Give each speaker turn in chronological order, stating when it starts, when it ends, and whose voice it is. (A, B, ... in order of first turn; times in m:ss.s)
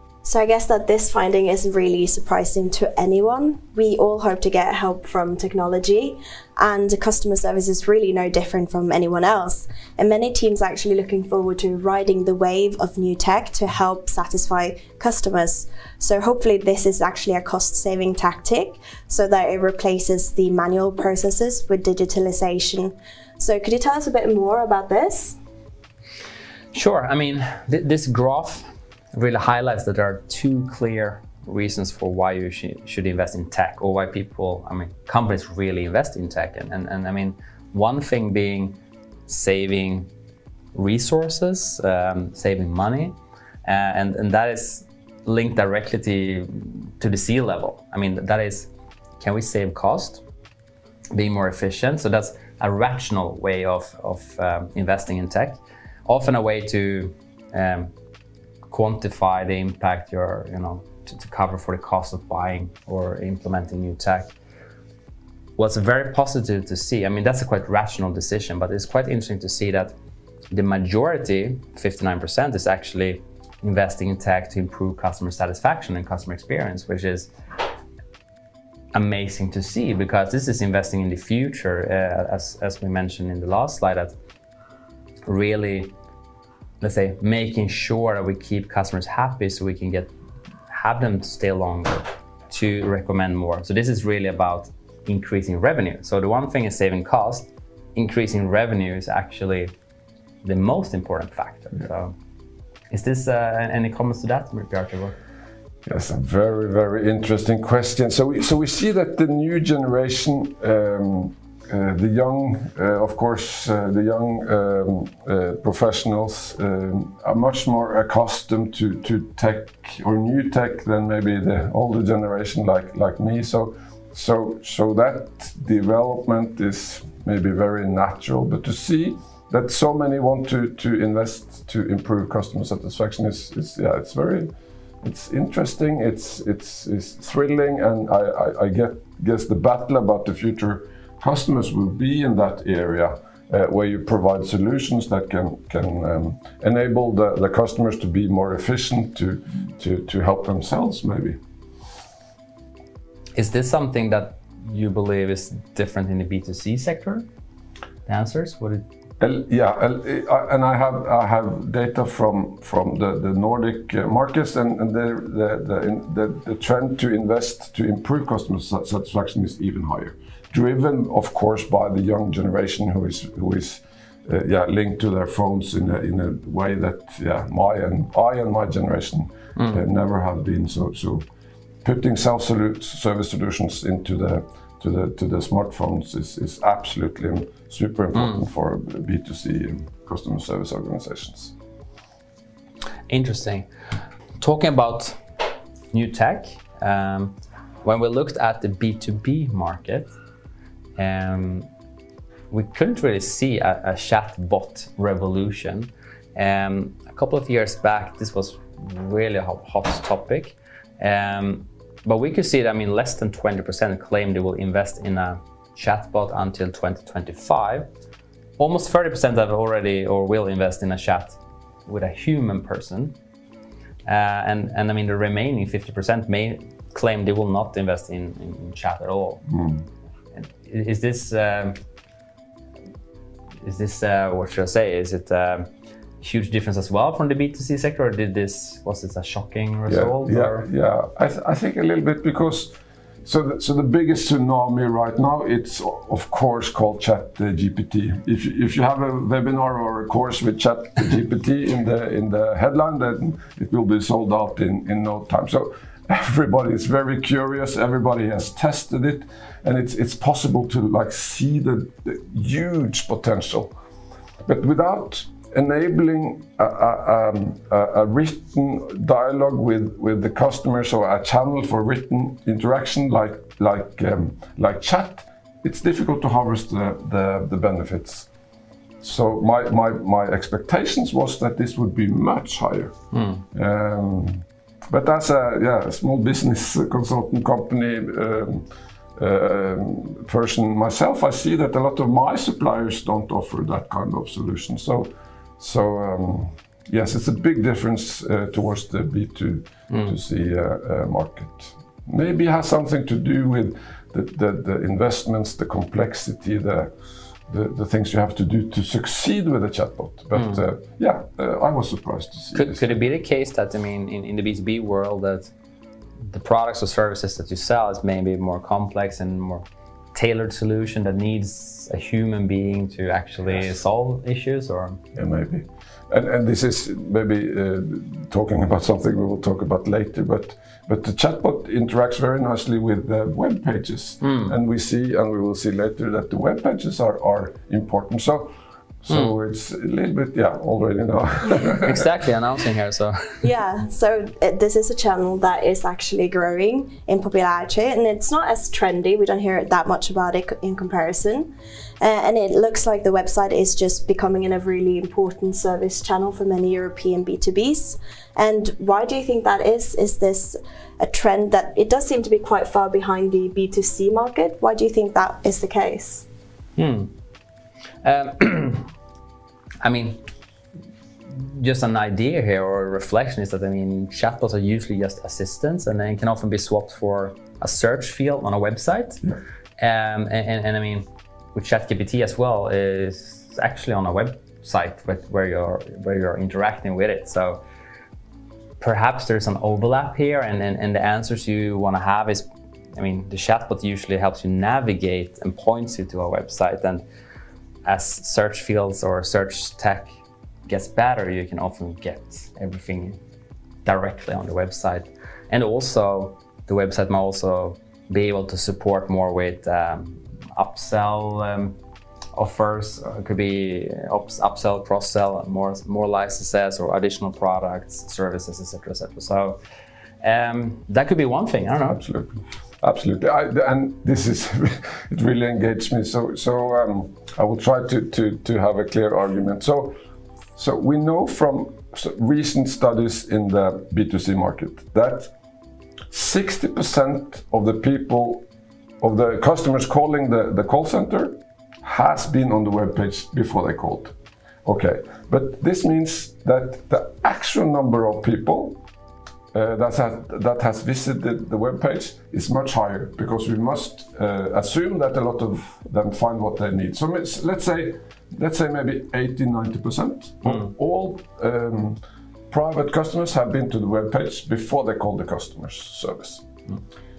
0:00.2-0:25.4 A
0:26.7-0:40.1 B
0:40.7-0:50.2 B
0:51.1-0:57.9 B
0:58.7-1:04.3 B
1:05.6-1:10.0 B
1:10.5-1:17.3 B
1:18.9-1:24.1 B
1:25.2-1:26.0 B
1:26.8-1:30.1 B
1:30.7-1:39.7 B
1:40.4-1:42.1 B
1:42.9-1:45.2 B
1:45.8-2:14.5 C
2:15.0-2:31.4 C
2:33.4-2:37.3 B
2:38.0-2:38.8 B
2:39.2-3:01.3 C
3:01.8-3:11.5 C
3:08.1-3:08.4 B
3:13.1-3:13.7 B
3:14.4-3:15.2 B
3:15.9-3:20.1 B
3:21.0-3:21.7 B
3:22.5-3:37.9 B
3:38.6-3:43.2 B
3:44.0-3:49.5 B
3:49.5-3:49.8 C
3:50.3-3:51.8 B
3:53.6-3:55.7 B
3:56.2-4:00.7 B
3:59.9-4:23.7 C
4:24.4-4:38.3 C
4:39.0-4:42.9 C
4:43.1-4:43.4 B
4:43.5-5:06.9 C
5:07.5-5:13.0 C
5:12.5-5:15.5 B
5:16.3-5:25.0 B
5:25.1-5:42.1 C
5:34.2-5:34.5 B
5:41.7-5:43.3 B
5:43.4-6:06.2 A
6:06.8-6:07.1 B
6:08.0-6:08.9 B
6:09.8-6:10.2 B
6:11.3-6:19.2 B
6:19.8-6:27.6 B
6:28.8-6:37.0 B
6:37.8-6:40.1 B
6:40.7-6:43.2 B
6:43.8-6:51.8 B
6:52.3-6:59.6 B
7:00.2-7:02.0 B
7:01.9-7:10.0 C
7:10.6-7:15.3 C
7:16.1-7:18.4 C
7:19.0-7:24.1 C
7:24.6-7:28.8 C
7:29.5-7:46.5 C